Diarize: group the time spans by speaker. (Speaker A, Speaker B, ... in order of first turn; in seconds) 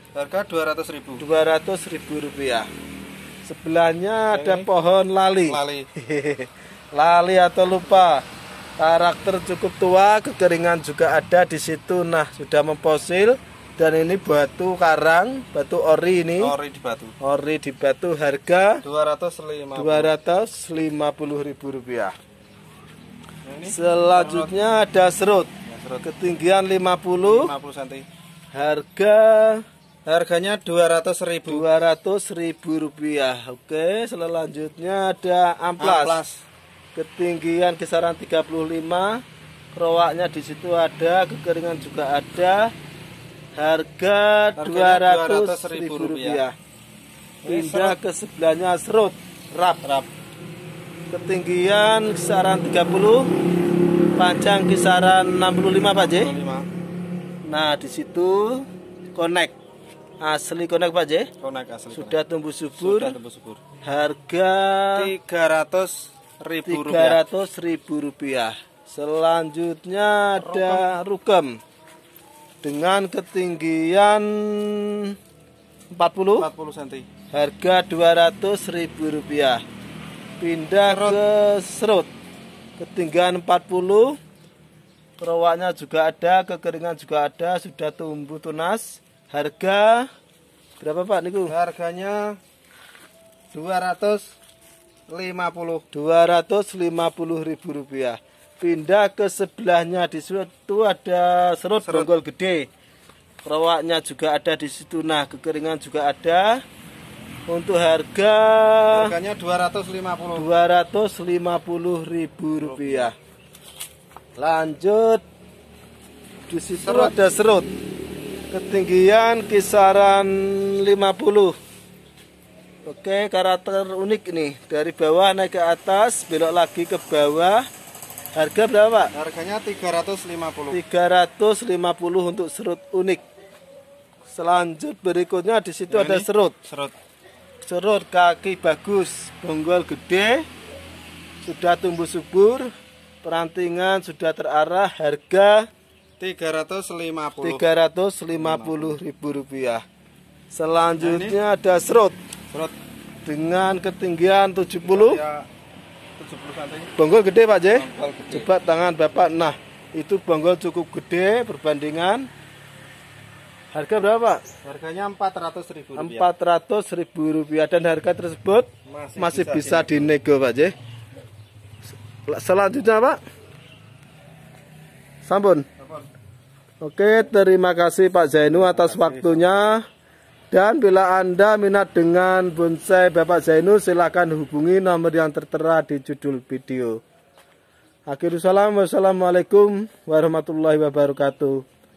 Speaker A: 0.1-1.2, 4.3-4.7, 5.4-5.9, 16.4-17.1, 18.8-20.1, 23.4-24.6, 25.6-26.1, 27.2-28.1, 30.0-31.6, 35.8-36.4, 44.6-46.4, 47.4-48.0, 49.8-50.1, 55.9-56.7, 61.4-62.2, 62.8-63.6, 64.9-67.2, 70.4-70.9, 76.4-77.0, 80.8-81.2, 91.5-92.4, 93.5-94.3, 95.1-95.8, 101.8-102.1, 108.9-110.5, 112.6-113.1, 116.7-117.2, 129.1-130.8, 135.9-136.9, 146.2-147.7, 148.3-149.0, 151.0-151.4, 154.8-155.5, 156.2-156.9, 157.7-158.5, 164.6-166.3, 168.8-170.1, 175.8-176.1, 178.5-179.5
Speaker B: 1.2-2.7, 3.4-8.2, 8.8-16.5, 17.2-18.8, 19.7-22.1, 23.6-25.5, 26.0-27.5, 28.5-29.6, 31.4-36.2, 36.9-39.2, 39.7-42.7, 43.5-46.5, 47.5-49.8, 51.1-53.3, 54.1-56.3, 57.5-59.5, 60.2-61.3, 61.9-63.1, 63.8-65.1, 66.7-71.6, 72.6-75.1, 75.9-76.5, 77.3-79.6, 80.4-82.1, 82.8-84.2, 85.2-90.1, 90.8-91.5, 95.9-102.7, 103.4-106.6, 107.5-109.1, 110.3-113.1, 114.4-115.2, 116.5-117.7, 118.5-121.5, 122.8-127.6, 128.3-129.1, 130.7-133.2, 134.3-136.6, 137.6-140.4, 141.4-142.7, 143.2-145.7, 147.4-149.8, 150.5-152.2, 153.2-155.2, 157.0-162.3, 163.7-164.4, 165.9-170.7, 172.3-173.2, 175.2-175.7, 176.8-179.8, 180.5-187.0, 188.1-191.6